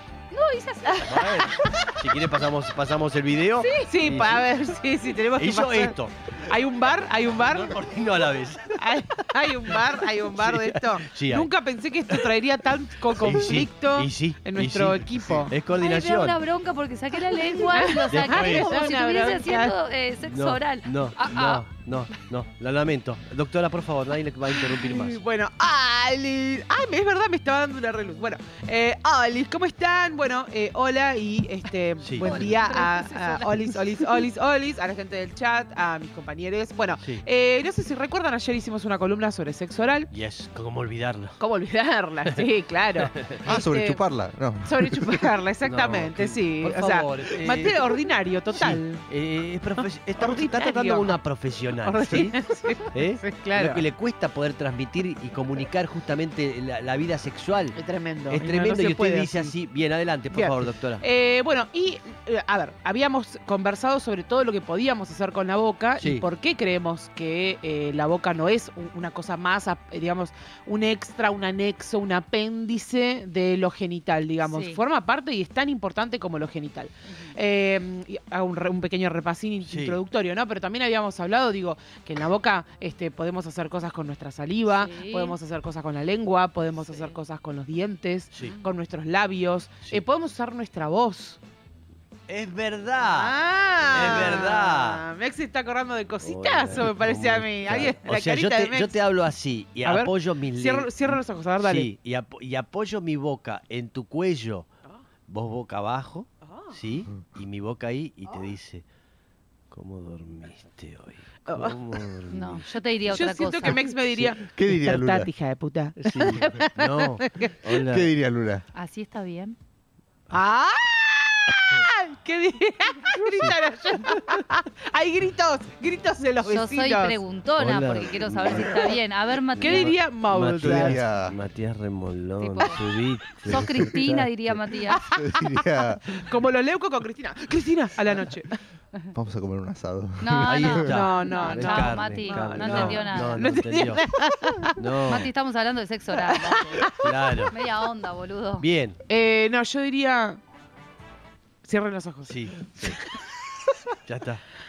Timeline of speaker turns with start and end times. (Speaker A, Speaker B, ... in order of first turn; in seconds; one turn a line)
Speaker A: 0.3-1.4
Speaker B: 0.9-1.9
Speaker C: 1.0-4.6
Speaker A: 3.6-4.0
Speaker B: 3.9-7.8
Speaker C: 5.2-6.3
Speaker C: 7.3-11.5
Speaker B: 8.8-15.5
Speaker C: 12.1-12.3
Speaker C: 13.1-16.4
Speaker A: 15.8-21.7
Speaker B: 17.4-19.8
Speaker C: 18.1-18.7
Speaker C: 20.2-25.2
Speaker B: 24.6-40.1
Speaker C: 32.0-32.5
Speaker A: 32.2-34.3
Speaker C: 37.0-37.2
Speaker C: 40.1-41.4
Speaker B: 41.4-44.0
Speaker C: 43.0-43.5
Speaker D: 43.5-45.3
Speaker B: 44.6-49.0
Speaker C: 45.6-47.9
Speaker C: 48.5-57.8
Speaker B: 49.8-51.2
Speaker B: 51.8-53.9
Speaker B: 57.8-59.6
Speaker C: 58.3-61.0
Speaker B: 60.3-91.4
Speaker C: 66.0-66.2
Speaker A: 74.4-74.8
Speaker C: 79.7-80.0
Speaker A: 84.7-85.4
Speaker C: 92.3-95.0
Speaker B: 93.0-99.0
Speaker C: 96.2-104.7
Speaker B: 99.8-101.9
Speaker C: 105.3-108.8
Speaker B: 106.5-106.7
Speaker C: 109.7-112.7
Speaker B: 111.5-112.0
Speaker A: 112.3-113.9
Speaker B: 113.1-117.8
Speaker D: 114.2-115.3
Speaker C: 116.1-118.1
Speaker D: 117.8-118.6
Speaker A: 118.7-119.6
Speaker B: 120.3-127.2
Speaker A: 126.4-129.9
Speaker C: 127.6-129.0
Speaker C: 129.5-133.7
Speaker B: 129.6-131.0
Speaker D: 130.6-131.4
Speaker A: 132.4-135.0
Speaker D: 133.4-134.2
Speaker B: 134.8-138.6
Speaker D: 135.1-136.2
Speaker D: 139.1-140.9
Speaker A: 140.2-143.5
Speaker C: 140.4-144.1
Speaker B: 140.8-144.8
Speaker C: 144.8-145.3
Speaker A: 145.0-146.9
Speaker B: 146.2-147.1
Speaker C: 146.9-147.5
Speaker A: 147.5-148.7
Speaker C: 148.6-149.0
Speaker B: 149.1-150.4
Speaker B: 151.7-153.4
Speaker C: 152.3-153.0
Speaker C: 154.1-154.4